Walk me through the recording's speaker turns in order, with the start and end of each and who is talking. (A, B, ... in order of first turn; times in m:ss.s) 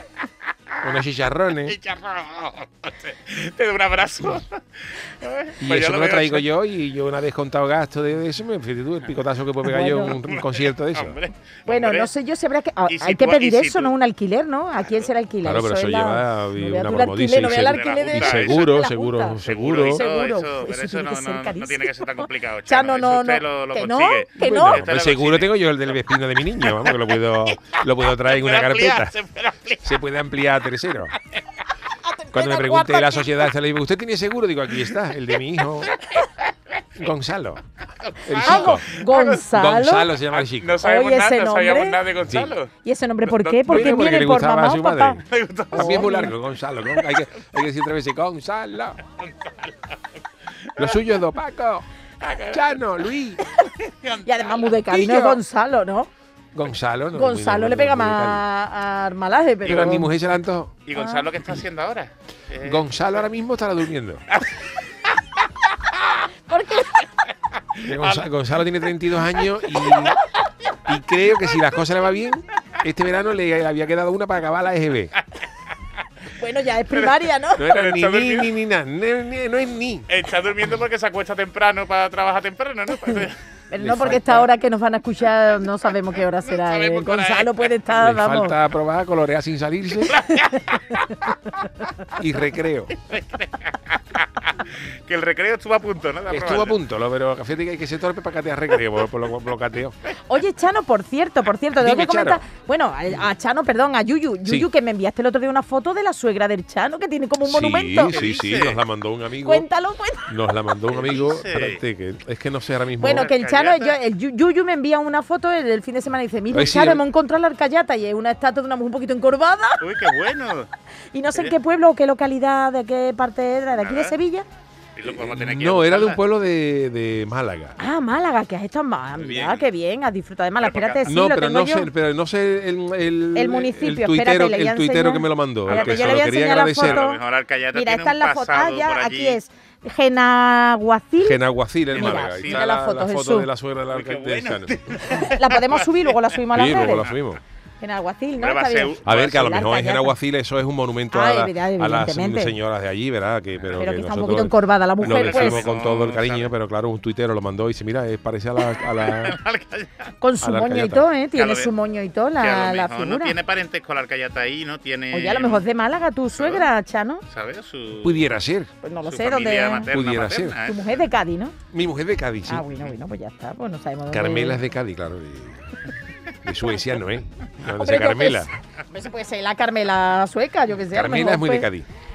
0:00.8-0:01.8 A
0:01.6-0:06.4 B
0:05.6-0:11.2 A
0:09.6-0:10.2 C
0:10.2-0:12.1 B
0:11.7-0:24.8 C
0:12.9-0:13.9 B
0:15.4-0:20.0 A
0:17.6-0:18.8 B
0:19.4-0:26.0 B
0:24.4-0:29.1 A
0:26.6-0:29.8 B
0:29.8-0:31.1 A
0:32.0-0:33.3 C
0:32.3-0:36.0 A
0:37.0-0:37.6 A
0:38.0-0:39.4 B
0:38.2-0:38.9 A
0:38.4-0:40.1 C
0:39.5-0:40.8 A
0:40.3-0:42.7 B
0:40.8-0:42.0 C
0:42.2-0:42.5 A
0:42.8-0:45.2 C
0:43.2-0:44.0 B
0:43.7-0:49.0 A
0:45.3-0:46.2 B
0:45.7-0:46.3 C
0:49.2-0:49.8 B
0:50.7-0:51.0 B
0:50.8-0:51.8 A
0:52.2-0:52.6 B
0:52.5-0:53.4 A
0:53.8-0:54.6 B
0:54.2-0:56.1 C
0:54.9-0:55.4 A
0:56.5-0:58.4 A
0:57.1-1:00.1 C
0:59.6-1:00.7 A
0:59.6-1:00.0 B
1:00.8-1:03.2 B
1:00.9-1:01.3 C
1:02.6-1:04.2 A
1:04.3-1:04.6 B
1:06.5-1:07.1 C
1:07.7-1:08.3 B
1:07.8-1:10.2 A
1:10.8-1:15.1 A
1:16.4-1:17.6 C
1:16.9-1:18.5 B
1:17.6-1:20.1 A
1:20.1-1:23.4 B
1:23.7-1:28.5 C
1:23.8-1:24.4 A
1:26.4-1:27.7 B
1:27.9-1:30.2 A
1:30.1-1:31.0 B
1:32.1-1:32.9 A
1:33.0-1:36.8 B
1:36.3-1:40.0 A
1:40.3-1:48.1 C
1:41.8-1:42.4 A
1:47.4-1:49.7 A
1:48.1-1:48.8 B
1:49.4-1:50.3 C
1:50.3-1:53.3 A
1:50.9-1:51.8 B
1:53.0-2:00.0 C
1:53.0-1:54.0 B
1:56.5-1:57.0 A
1:59.8-2:00.7 B
2:01.1-2:04.4 C
2:03.8-2:04.1 B
2:05.0-2:06.2 B
2:05.0-2:07.8 A
2:07.8-2:11.9 C
2:09.2-2:09.7 B
2:10.6-2:11.1 B
2:11.0-2:17.1 A
2:13.3-2:17.2 C
2:15.7-2:19.4 B
2:17.7-2:21.4 C
2:21.2-2:24.8 A
2:21.9-2:22.6 B
2:21.9-2:23.5 C
2:23.9-2:26.2 B
2:25.1-2:27.0 C
2:26.5-2:27.4 A
2:27.8-2:30.1 C
2:28.4-2:29.5 B
2:29.0-2:39.4 A
2:31.1-2:32.5 C
2:33.8-2:35.6 C
2:35.0-2:36.5 B
2:38.9-2:40.1 B
2:40.2-2:43.4 C
2:40.4-2:41.0 A
2:41.3-2:41.7 B
2:42.4-2:45.6 B
2:45.1-2:47.2 C
2:46.4-2:46.6 B
2:47.3-2:48.3 B
2:48.0-2:48.7 A
2:48.8-2:49.8 C
2:49.0-2:50.8 B
2:49.9-2:50.6 A
2:50.6-2:51.5 C
2:51.7-2:52.6 A
2:52.5-2:54.6 C
2:54.1-2:55.6 A
2:56.4-2:58.5 A
2:57.8-3:01.7 C
3:00.9-3:01.9 A